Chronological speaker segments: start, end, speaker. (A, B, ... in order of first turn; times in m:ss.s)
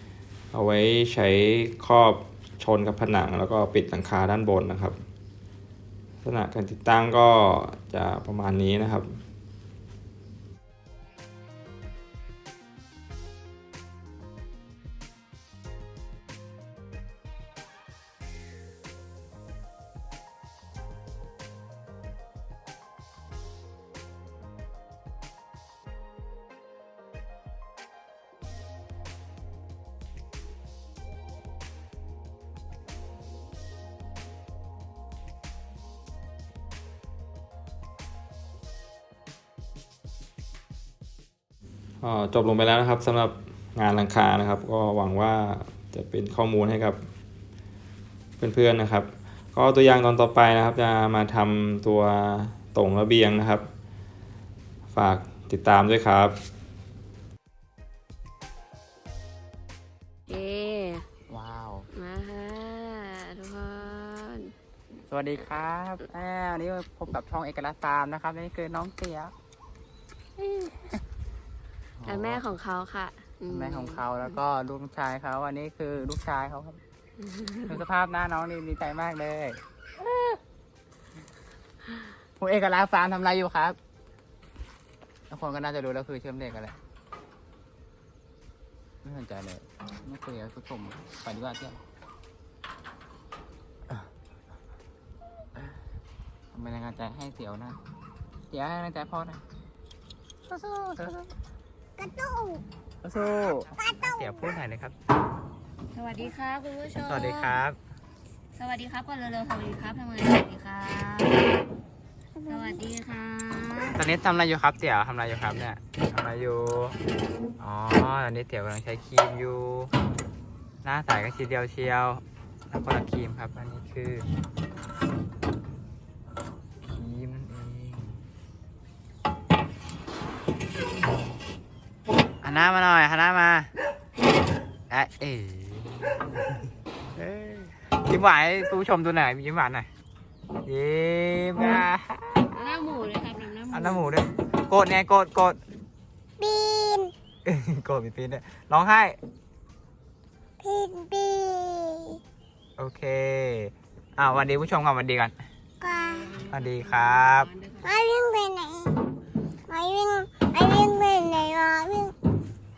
0:00.5-0:05.0 A
0:06.2-0:09.2 A
0:42.0-0:47.0 A
0:48.4-0:53.7 A
0:54.9-0:56.4 A
1:00.3-1:01.0 B
1:01.3-1:01.9 C
1:01.9-1:04.5 B
1:05.1-1:09.3 C
1:12.0-1:12.4 C
1:12.0-1:14.0 B
1:13.5-1:16.8 C
1:17.3-1:17.8 B
1:17.6-1:19.6 C
1:22.4-1:23.8 C
1:25.3-1:26.8 C
1:29.0-1:31.8 C
1:36.5-1:37.8 C
1:38.5-1:39.4 C
1:40.5-1:41.3 C
1:42.0-1:42.6 D
1:43.0-1:45.0 C
1:43.8-1:44.2 D
1:45.9-1:47.5 B
1:47.0-1:47.8 C
1:48.5-1:51.4 B
1:52.4-1:52.8 D
1:52.4-1:54.0 B
1:53.9-1:57.0 C
1:57.6-1:59.9 C
2:00.8-2:04.3 C
2:06.9-2:08.2 C
2:12.4-2:13.7 C
2:14.9-2:16.2 C
2:17.1-2:19.9 C
2:20.6-2:22.5 C
2:22.5-2:24.2 B
2:23.7-2:25.6 C
2:26.4-2:27.1 D
2:27.4-2:29.2 C
2:30.6-2:32.2 D
2:32.8-2:35.3 C
2:35.8-2:36.4 D
2:36.4-2:37.5 C
2:37.8-2:39.0 D
2:39.7-2:42.1 D